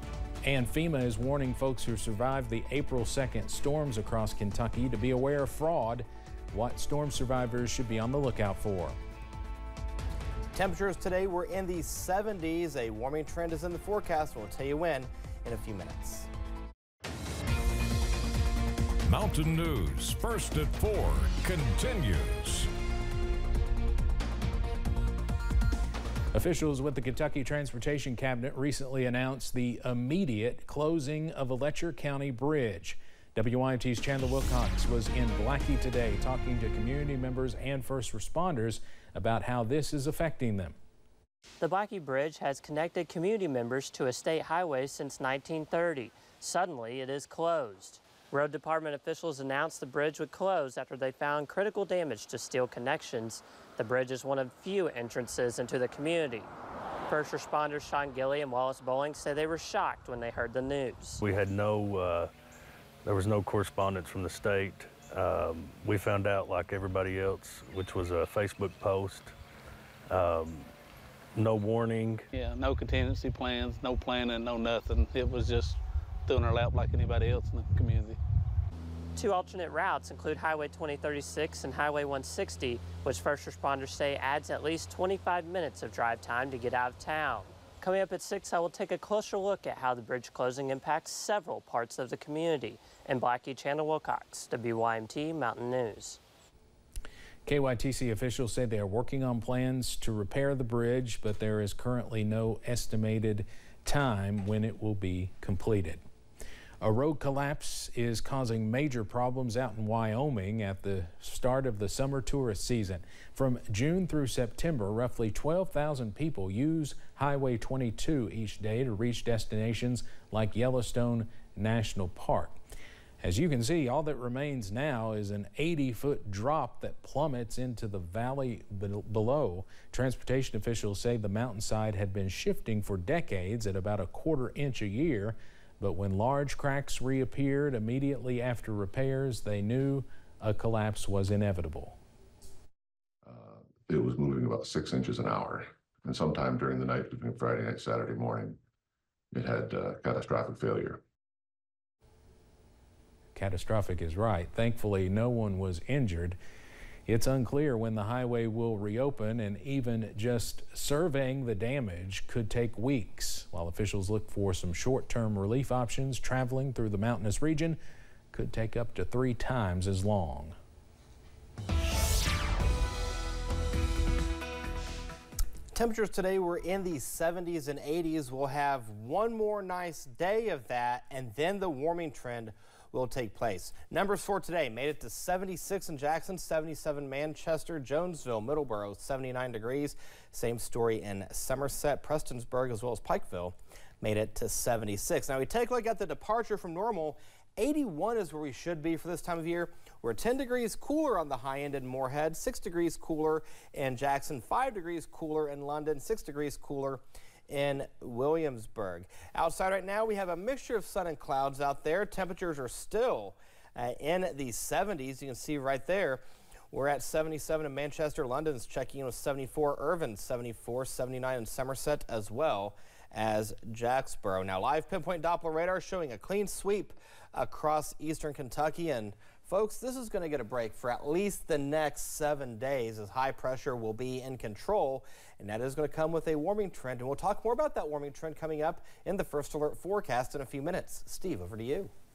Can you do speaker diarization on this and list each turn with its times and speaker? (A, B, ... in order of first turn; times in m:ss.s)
0:00.4-0:09.0 A
0:10.6-0:16.3 B
0:19.1-0:22.7 C
0:26.3-0:40.8 A
0:41.6-0:56.5 D
0:57.1-1:01.2 D
1:01.2-1:02.3 E
1:03.0-1:09.3 E
1:10.1-1:10.7 E
1:11.4-1:12.2 E
1:12.3-1:18.2 F
1:19.2-1:36.2 D
1:37.5-1:46.0 A
1:46.8-2:02.6 A
2:03.2-2:22.0 A
2:23.2-2:28.6 G
2:29.3-2:31.0 G
2:33.3-2:36.4 A
2:37.1-2:47.8 A
2:48.3-2:50.6 A
2:55.7-4:01.9 B